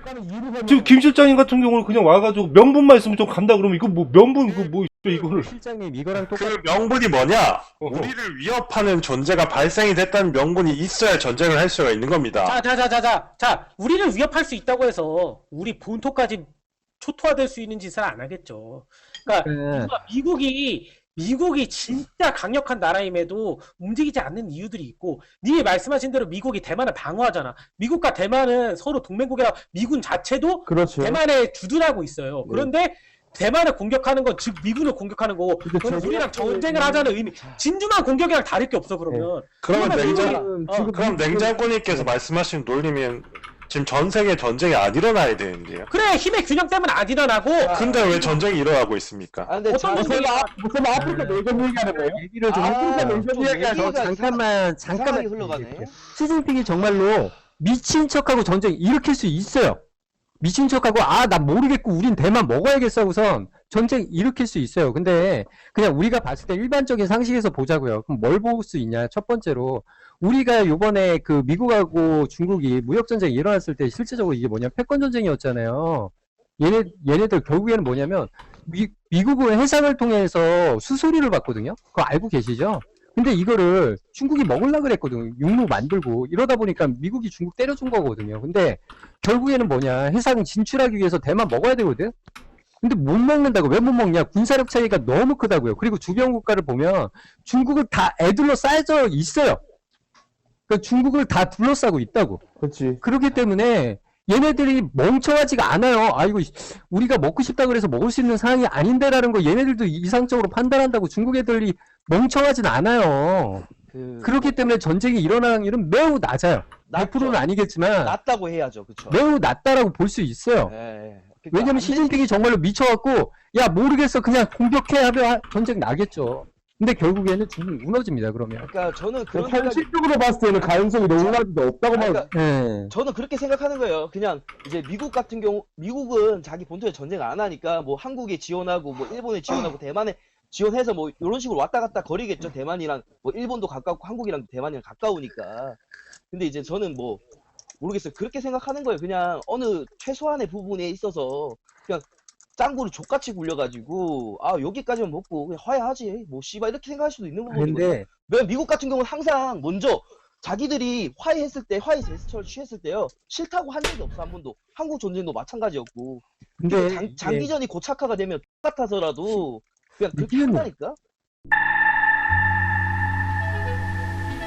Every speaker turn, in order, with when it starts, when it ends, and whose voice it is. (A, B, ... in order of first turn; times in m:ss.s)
0:00.2-0:00.9 A
0:00.7-0:05.5 B
0:05.1-0:06.6 C
0:06.2-0:12.6 D
0:07.8-0:08.1 B
0:12.4-0:41.0 E
0:19.4-0:19.9 C
0:30.7-0:31.2 A
0:35.6-0:37.0 A
0:37.3-0:37.6 F
0:39.6-0:45.9 D
0:40.0-0:42.0 A
0:45.9-0:47.8 E
0:47.6-0:48.4 F
0:47.7-0:49.6 D
0:49.4-0:50.4 F
0:49.6-0:50.5 E
0:50.7-0:52.2 A
0:50.9-0:59.8 C
0:52.4-0:56.0 F
0:52.9-0:53.5 A
1:00.4-1:32.1 C
1:32.8-1:39.6 C
1:40.7-1:42.4 C
1:42.6-1:43.0 A
1:43.0-1:53.6 C
1:53.9-1:54.6 F
1:54.2-1:58.2 C
1:56.9-1:57.4 F
1:58.0-1:59.2 F
1:59.1-2:00.7 C
2:00.6-2:02.2 F
2:01.5-2:08.7 C
2:08.6-2:09.9 F
2:09.4-2:12.1 A
2:11.1-2:11.4 F
2:11.9-2:12.3 F
2:12.3-2:12.9 C
2:12.9-2:25.8 F
2:26.3-2:27.2 F
2:27.8-2:51.0 F
2:37.5-2:38.1 C
2:46.6-2:47.5 C
2:50.1-2:50.7 C